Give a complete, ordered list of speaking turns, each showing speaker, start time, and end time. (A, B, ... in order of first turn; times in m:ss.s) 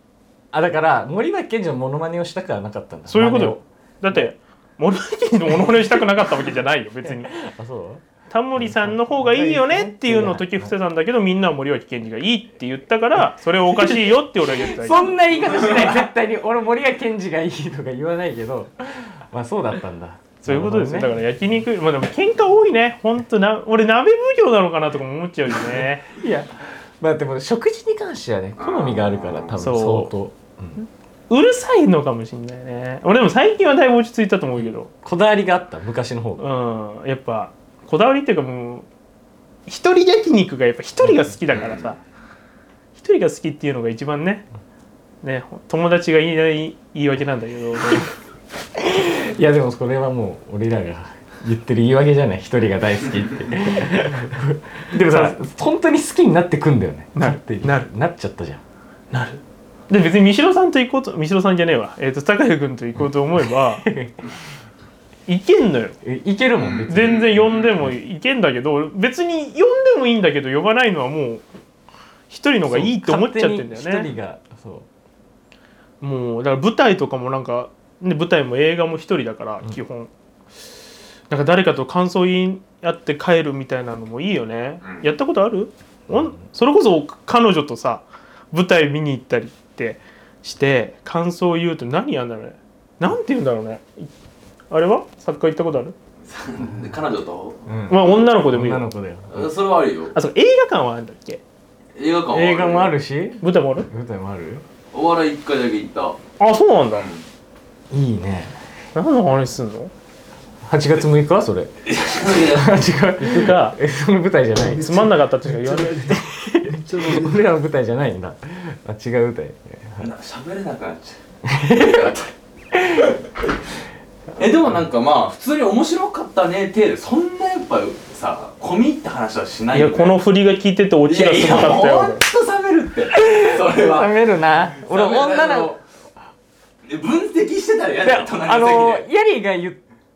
0:00.5-0:04.3 A
0:03.1-0:07.3 B
0:07.0-0:08.0 A
0:08.3-0:15.2 B
0:08.6-0:10.7 A
0:13.7-0:21.2 A
0:20.4-0:26.1 B
0:26.1-0:30.8 A
0:28.6-0:29.6 C
0:29.6-0:30.1 B
0:31.3-0:34.9 B
0:35.0-0:36.5 A
0:36.4-0:38.9 B
0:39.7-0:42.0 B
0:41.5-0:41.9 C
0:43.0-0:44.5 B
0:45.2-0:48.1 B
0:48.8-0:58.6 A
0:55.0-0:55.4 B
0:57.2-0:57.9 B
0:59.1-1:03.9 B
1:03.6-1:04.2 A
1:05.3-1:06.0 B
1:06.0-1:07.4 A
1:06.6-1:07.8 C
1:06.9-1:11.4 B
1:12.3-1:14.1 B
1:12.7-1:14.9 A
1:16.0-1:20.1 B
1:21.3-1:34.1 B
1:24.8-1:25.1 C
1:26.1-1:26.4 A
1:34.7-1:36.0 B
1:36.2-1:37.7 C
1:37.7-1:39.5 A
1:37.9-1:38.8 B
1:39.3-1:40.2 C
1:40.1-1:41.4 B
1:42.0-1:43.0 C
1:42.3-1:44.6 A
1:43.4-1:43.9 B
1:44.9-1:46.2 C
1:46.4-1:47.1 B
1:46.9-1:47.2 C
1:47.9-1:48.6 A
1:49.0-1:49.9 B
1:50.6-1:51.7 A
1:51.8-1:52.8 C
1:52.4-2:00.1 A
1:53.2-1:53.8 B
1:54.7-1:56.2 B
2:00.0-2:01.2 C
2:01.4-2:02.2 A
2:01.7-2:02.3 C
2:02.7-2:03.2 A
2:04.4-2:10.2 C
2:09.7-2:12.2 B
2:11.1-2:14.1 C
2:13.1-2:15.8 A
2:14.8-2:15.8 C
2:16.8-2:19.0 C
2:18.0-2:19.8 A